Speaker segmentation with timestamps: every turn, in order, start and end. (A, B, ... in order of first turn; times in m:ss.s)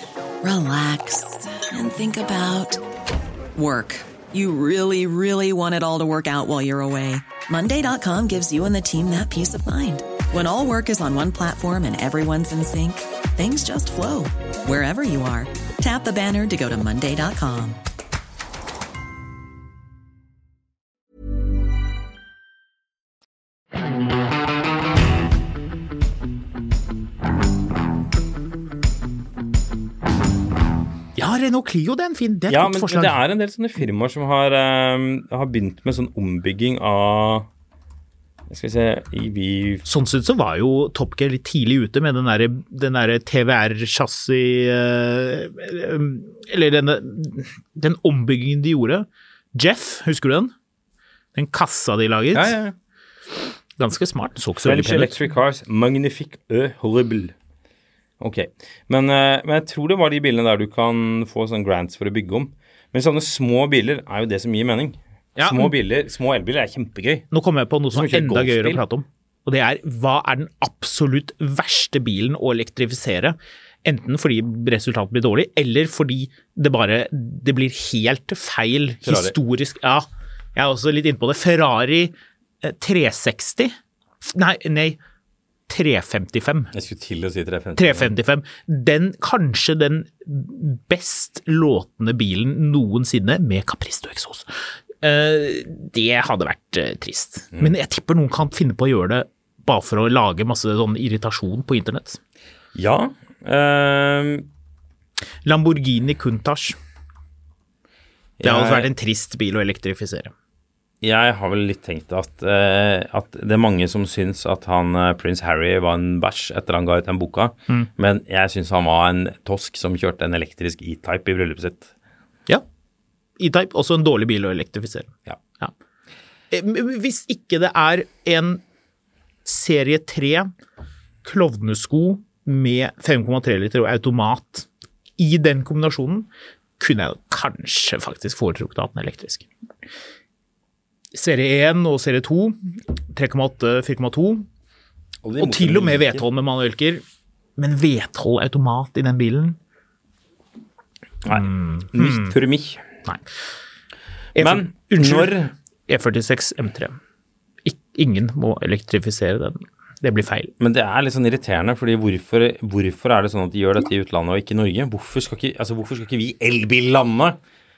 0:00.4-0:02.8 A
0:03.5-0:17.8 A
0:31.2-0:33.2 B
0:32.5-0:37.5 C
0:38.5-0:39.8 C
0:39.8-0:50.5 B
0:51.3-0:52.5 B
0:52.3-0:52.7 C
0:53.8-0:55.2 B
0:54.6-0:57.3 C
0:58.2-1:07.2 C
1:05.4-1:05.7 B
1:07.3-1:25.0 B
1:07.9-1:08.8 C
1:19.0-1:19.3 C
1:25.7-1:26.7 B
1:26.7-1:28.1 C
1:27.8-1:34.5 B
1:35.0-1:42.2 B
1:42.7-1:44.5 C
1:45.4-1:46.8 B
1:48.4-1:48.9 C
1:48.4-1:50.3 B
1:51.0-2:01.9 C
2:03.4-2:05.7 B
2:06.5-2:08.6 B
2:09.4-2:10.5 B
2:11.2-2:14.7 B
2:15.2-2:16.3 B
2:16.8-2:19.5 B
2:21.1-2:24.5 B
2:25.2-2:26.2 C
2:25.4-2:27.0 B
2:27.6-2:29.6 B
2:31.2-2:32.8 C
2:31.3-2:32.3 B
2:34.3-2:35.4 B
2:34.4-2:35.5 C
2:35.9-2:37.0 B
2:37.6-2:40.5 B
2:40.6-2:47.4 C